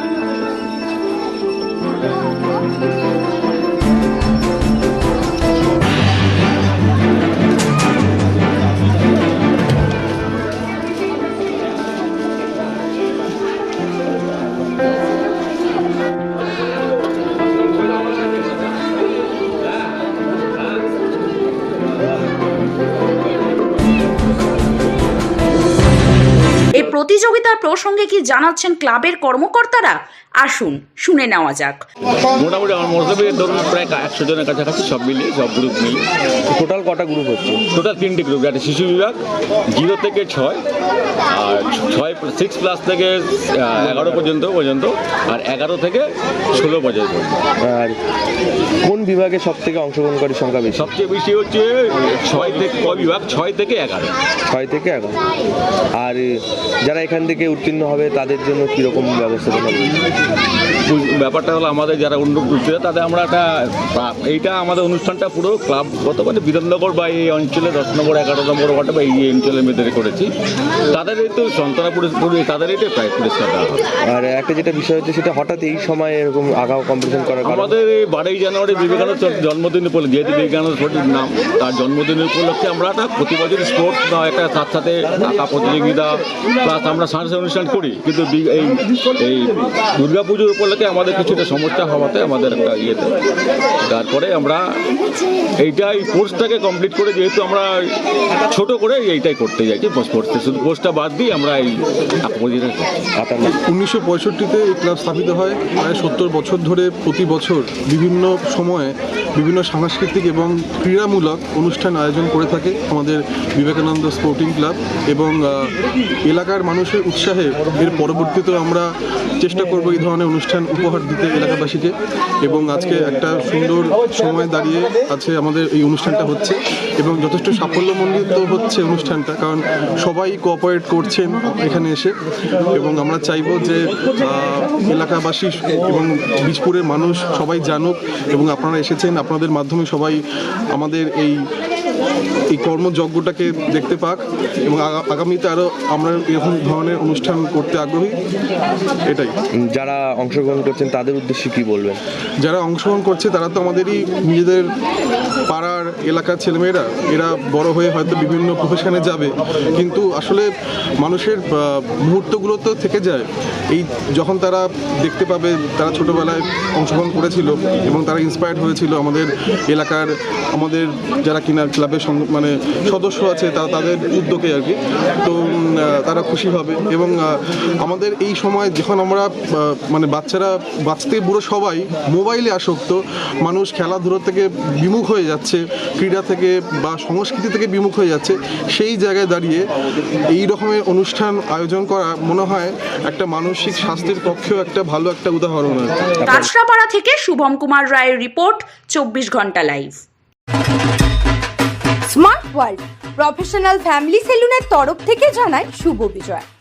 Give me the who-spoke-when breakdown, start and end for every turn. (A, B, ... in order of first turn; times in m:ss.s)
0:26.7-0:31.8 A
0:32.3-0:36.0 B
0:36.5-0:37.6 C
0:37.7-0:39.2 B
0:39.7-0:40.6 B
0:41.3-0:47.4 B
0:47.6-0:48.0 C
0:48.8-0:50.9 C
0:50.7-0:54.1 B
0:54.5-0:55.2 C
0:56.0-1:00.0 C
1:00.8-1:10.3 B
1:10.9-1:13.8 B
1:14.1-1:17.7 C
1:17.4-1:33.2 B
1:33.9-1:34.6 B
1:35.6-1:37.9 B
1:38.5-1:42.9 B
1:43.2-1:43.5 C
1:43.7-1:55.7 D
1:56.3-1:58.9 D
1:59.4-2:01.9 D
2:02.4-2:12.1 D
2:12.8-2:20.2 D
2:20.7-2:21.4 D
2:22.5-2:28.2 D
2:29.1-2:29.4 D
2:29.7-2:32.0 C
2:32.4-2:34.7 D
2:35.5-2:40.4 D
2:41.0-2:57.2 D
2:57.8-3:09.6 D
3:10.3-3:16.1 D
3:16.3-3:20.0 A
3:22.1-3:26.4 E